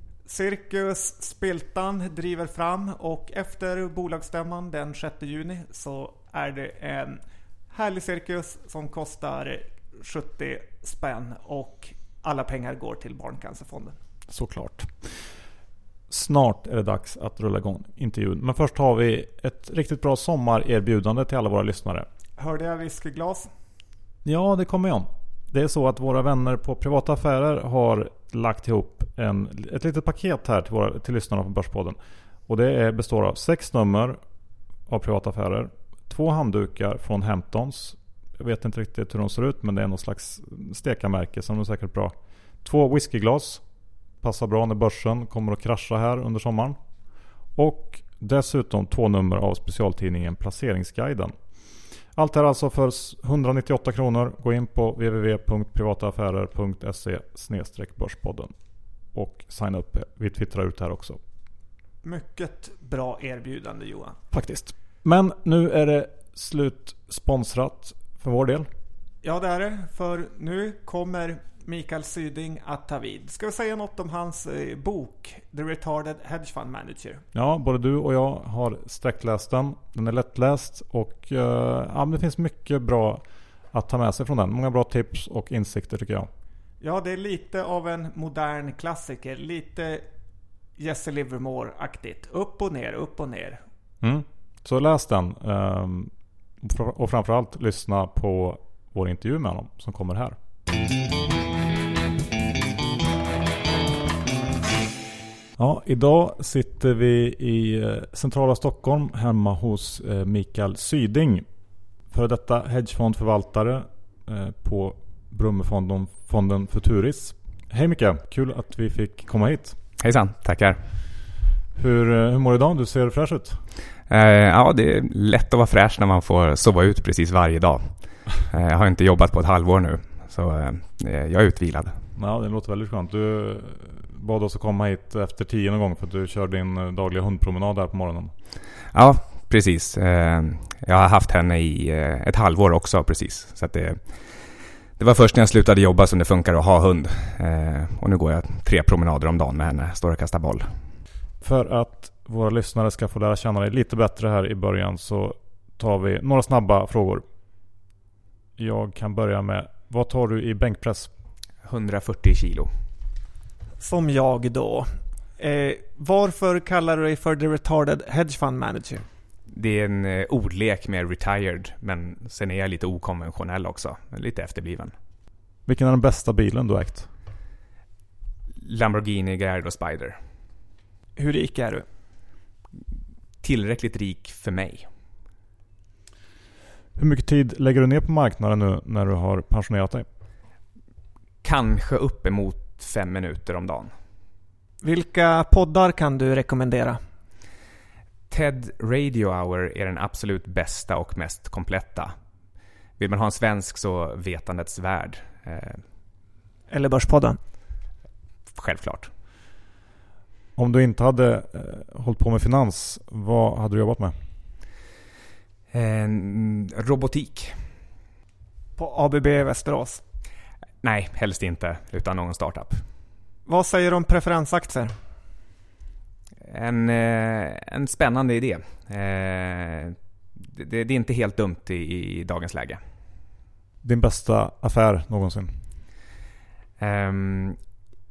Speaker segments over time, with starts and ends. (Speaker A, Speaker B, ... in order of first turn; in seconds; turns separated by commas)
Speaker A: 0.2-14.0, Speaker B: 14.3-15.3, Speaker B: 16.1-22.1, Speaker A: 22.4-23.5, Speaker B: 24.2-34.2, Speaker B: 34.9-43.6, Speaker B: 44.2-46.8, Speaker B: 47.4-58.5, Speaker B: 59.1-61.2, Speaker A: 62.0-64.2, Speaker B: 64.3-68.7, Speaker A: 69.2-77.2, Speaker B: 77.3-86.3, Speaker A: 86.8-90.1, Speaker A: 90.8-93.6, Speaker B: 94.0-100.3, Speaker B: 105.6-111.5, Speaker B: 112.1-119.8, Speaker C: 120.0-120.8, Speaker B: 121.7-123.6, Speaker C: 124.1-132.0, Speaker B: 132.2-138.3, Speaker C: 138.9-144.0, Speaker C: 145.0-150.7, Speaker B: 151.4-157.2, Speaker B: 158.6-161.1, Speaker C: 161.6-162.7, Speaker A: 163.8-169.0, Speaker C: 169.5-174.9, Speaker B: 175.7-177.1, Speaker C: 178.6-180.2, Speaker A: 181.2-181.8, Speaker C: 183.4-184.9, Speaker B: 186.9-190.1, Speaker C: 191.4-193.9, Speaker A: 194.8-197.0, Speaker C: 198.3-202.1, Speaker C: 203.0-205.8, Speaker A: 206.7-207.4, Speaker C: 208.5-209.1, Speaker B: 210.6-214.2, Speaker C: 215.7-217.6, Speaker A: 218.8-220.0, Speaker C: 220.8-222.8, Speaker A: 223.5-224.9, Speaker C: 226.4-232.8, Speaker B: 233.8-235.6, Speaker C: 236.8-237.6